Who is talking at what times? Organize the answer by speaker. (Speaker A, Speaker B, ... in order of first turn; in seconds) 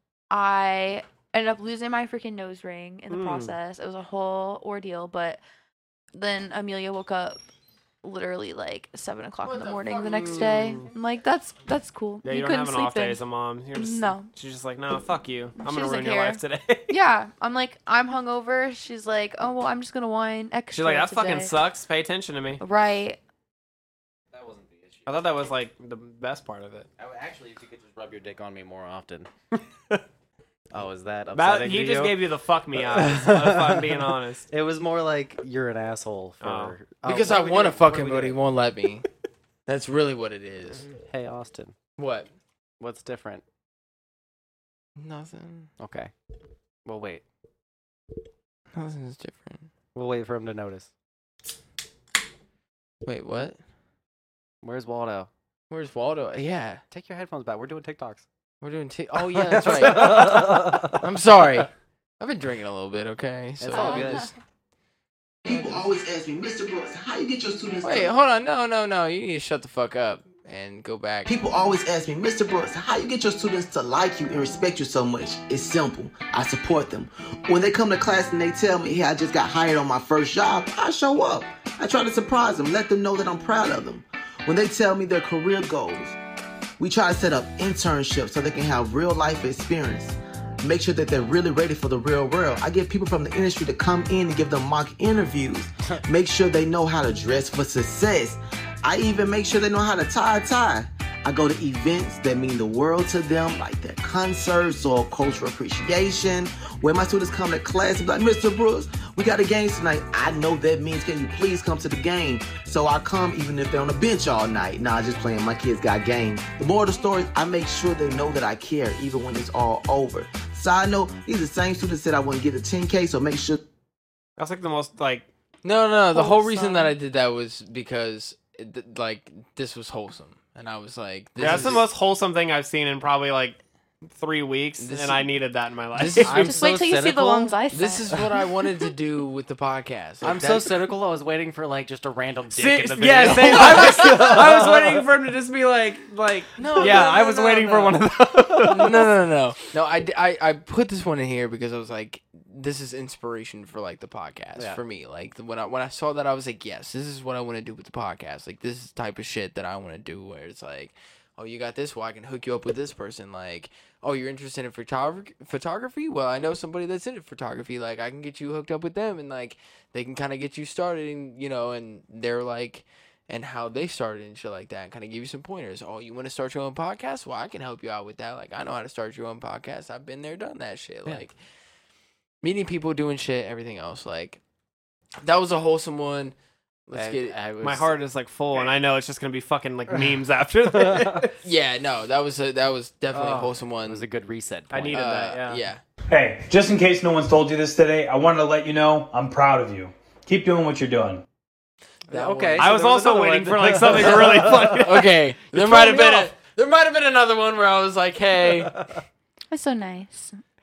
Speaker A: 0.3-5.4, 6.1-7.4, 8.0-13.2, 13.7-14.3, 15.6-21.6, 22.6-23.2, 63.7-64.2, 126.1-126.9, 136.4-138.1, 209.5-210.3
Speaker B: 3.1-3.5, 10.4-10.8, 12.2-16.9, 20.7-22.6, 25.1-26.9, 31.3-34.5, 36.4-36.7, 124.4-125.3, 131.4-136.5, 142.9-149.0, 187.6-191.3, 193.1-193.5, 194.7-195.6, 202.6-206.1
Speaker C: 9.4-10.8, 37.0-39.0, 39.7-40.9, 42.0-42.3, 45.0-45.7, 48.7-49.7, 53.0-53.6, 55.7-56.8, 58.6-64.3, 67.8-71.3, 125.6-131.8, 134.8-135.3, 135.9-136.6, 137.7-140.9, 142.5-144.6, 146.6-181.3, 182.4-184.4, 185.2-186.3, 186.9-187.3, 191.4-194.0, 194.9-195.8, 202.1-202.8, 203.9-208.7
Speaker D: 24.3-25.2, 27.0-29.3, 30.7-32.2, 32.8-38.4, 40.9-41.7, 42.8-43.4, 45.8-46.1, 46.8-47.2, 49.9-50.9, 54.6-55.3, 56.9-58.2, 59.2-61.0, 63.6-64.3, 131.4-131.8, 136.2-137.6, 140.2-145.0, 186.9-187.9, 193.8-195.0, 202.1-204.8
Speaker E: 65.4-68.1, 71.2-86.2, 86.8-123.6
Speaker F: 196.1-201.2